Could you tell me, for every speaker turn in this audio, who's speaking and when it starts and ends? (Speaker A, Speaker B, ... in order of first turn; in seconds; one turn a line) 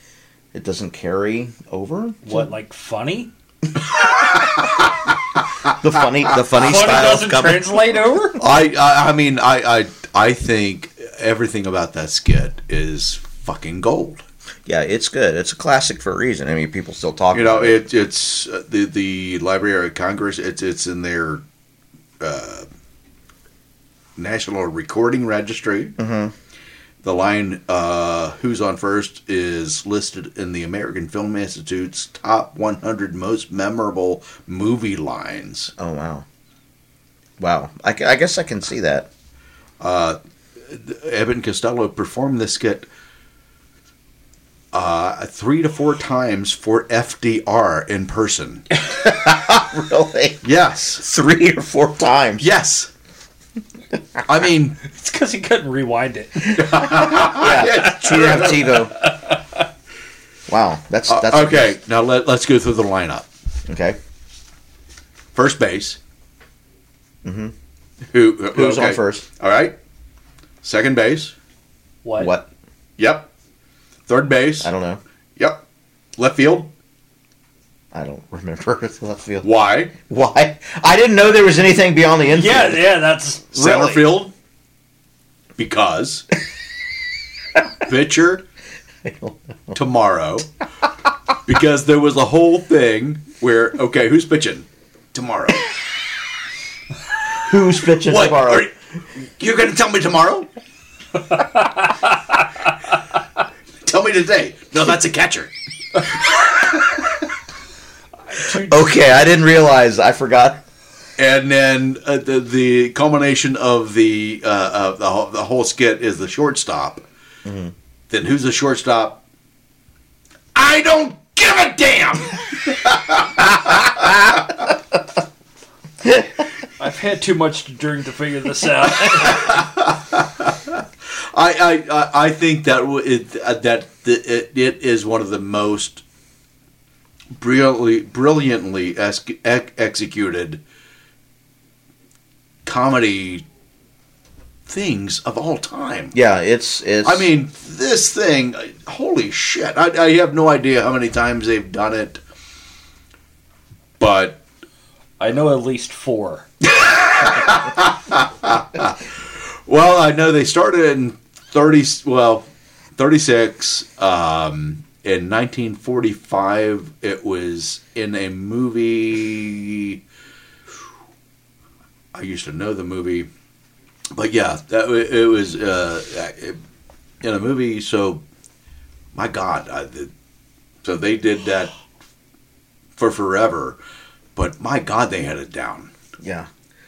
Speaker A: 0.5-2.5
Speaker B: 2.2-3.3
Speaker A: 5.7-8.0
Speaker B: 6.6-8.4
Speaker C: 8.4-14.2
Speaker A: 14.7-17.8
Speaker C: 17.3-21.4
Speaker C: 22.2-22.7
Speaker C: 24.2-25.9
Speaker A: 26.0-26.3
Speaker C: 27.0-35.7
Speaker A: 35.8-36.2
Speaker A: 37.4-39.1
Speaker C: 39.8-42.9
Speaker C: 44.7-48.6
Speaker A: 48.9-50.4
Speaker C: 50.4-51.0
Speaker A: 51.0-52.5
Speaker C: 52.4-52.9
Speaker C: 54.2-54.8
Speaker B: 54.8-56.7
Speaker C: 56.5-58.9
Speaker A: 57.0-58.9
Speaker A: 60.5-61.8
Speaker C: 61.1-63.3
Speaker A: 63.7-64.0
Speaker C: 65.3-66.0
Speaker A: 67.2-67.5
Speaker C: 68.1-69.8
Speaker A: 68.5-69.2
Speaker C: 70.6-71.3
Speaker B: 72.0-72.3
Speaker A: 72.2-72.5
Speaker C: 73.0-73.3
Speaker C: 74.1-74.7
Speaker A: 74.6-75.0
Speaker C: 75.4-75.6
Speaker C: 76.2-76.7
Speaker A: 77.9-83.1
Speaker C: 79.4-79.9
Speaker B: 82.3-83.8
Speaker C: 83.5-84.3
Speaker A: 83.6-84.0
Speaker C: 85.6-86.2
Speaker C: 87.8-88.4
Speaker A: 89.0-89.7
Speaker C: 89.7-90.5
Speaker C: 91.5-95.7
Speaker A: 97.3-98.7
Speaker C: 98.0-98.7
Speaker C: 99.4-100.5
Speaker C: 103.8-105.5
Speaker B: 108.3-108.8
Speaker A: 108.4-110.6
Speaker C: 111.2-117.0
Speaker A: 117.4-117.7
Speaker C: 118.1-119.2
Speaker C: 120.5-124.3
Speaker B: 126.8-129.6
Speaker C: 129.1-136.0
Speaker C: 137.3-140.6
Speaker C: 142.6-143.4
Speaker C: 144.7-146.1
Speaker A: 146.1-147.3
Speaker C: 147.0-152.2
Speaker C: 154.0-154.4
Speaker B: 155.2-156.5
Speaker C: 156.8-159.1
Speaker C: 159.7-170.0
Speaker C: 172.1-173.3
Speaker C: 174.1-176.6
Speaker C: 177.2-178.2
Speaker C: 179.1-180.1
Speaker C: 180.8-181.7
Speaker C: 183.0-183.8
Speaker C: 184.3-185.9
Speaker A: 186.2-186.5